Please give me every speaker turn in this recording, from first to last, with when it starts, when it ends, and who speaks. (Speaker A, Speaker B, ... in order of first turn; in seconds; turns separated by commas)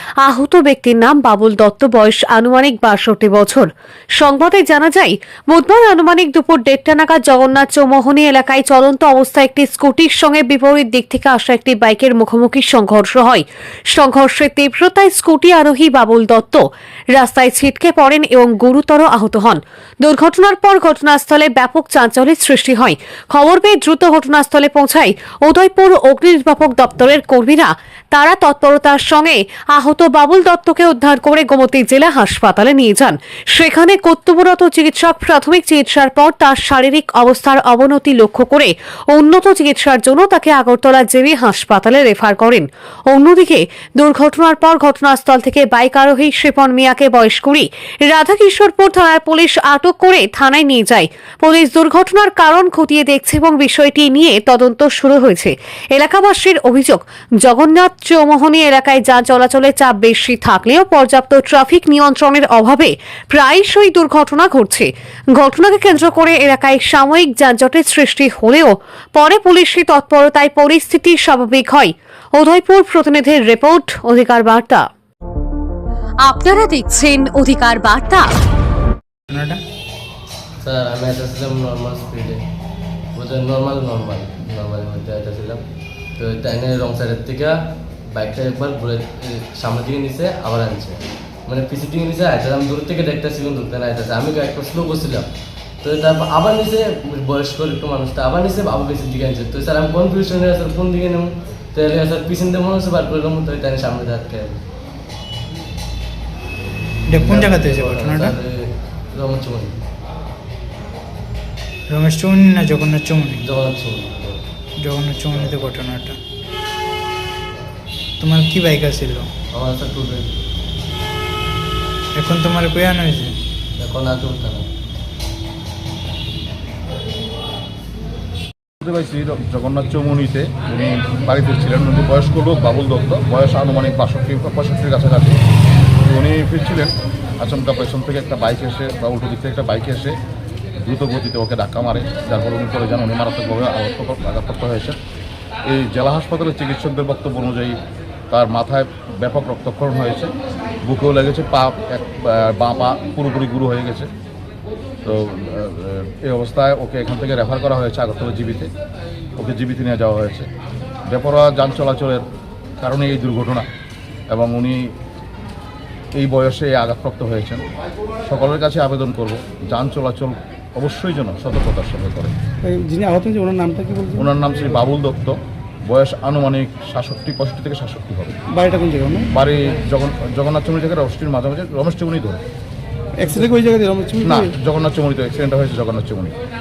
Speaker A: 0.2-74.8, Speaker A: 76.2-78.3, Speaker B: 79.3-79.6, Speaker C: 80.6-82.4, Speaker C: 83.1-85.6, Speaker C: 86.2-87.6, Speaker C: 88.1-95.3, Speaker C: 95.8-104.6, Speaker B: 107.1-108.3, Speaker C: 107.1-109.8, Speaker B: 111.9-113.4, Speaker C: 113.4-114.4, Speaker B: 114.8-116.2, Speaker B: 118.2-119.3, Speaker C: 119.5-120.3, Speaker B: 122.1-123.3, Speaker C: 123.8-124.6, Speaker D: 128.8-135.4, Speaker D: 136.0-140.1, Speaker D: 140.8-145.0, Speaker D: 145.7-147.8, Speaker D: 148.3-150.3, Speaker D: 150.8-154.1, Speaker D: 155.0-158.7, Speaker D: 159.4-160.5, Speaker D: 161.1-162.2, Speaker D: 162.8-163.7, Speaker D: 164.3-164.9, Speaker D: 166.2-167.6, Speaker D: 168.2-172.3, Speaker E: 172.6-174.3, Speaker D: 174.2-178.3, Speaker E: 178.5-179.3, Speaker D: 179.3-182.4, Speaker E: 183.2-184.5, Speaker D: 184.2-186.3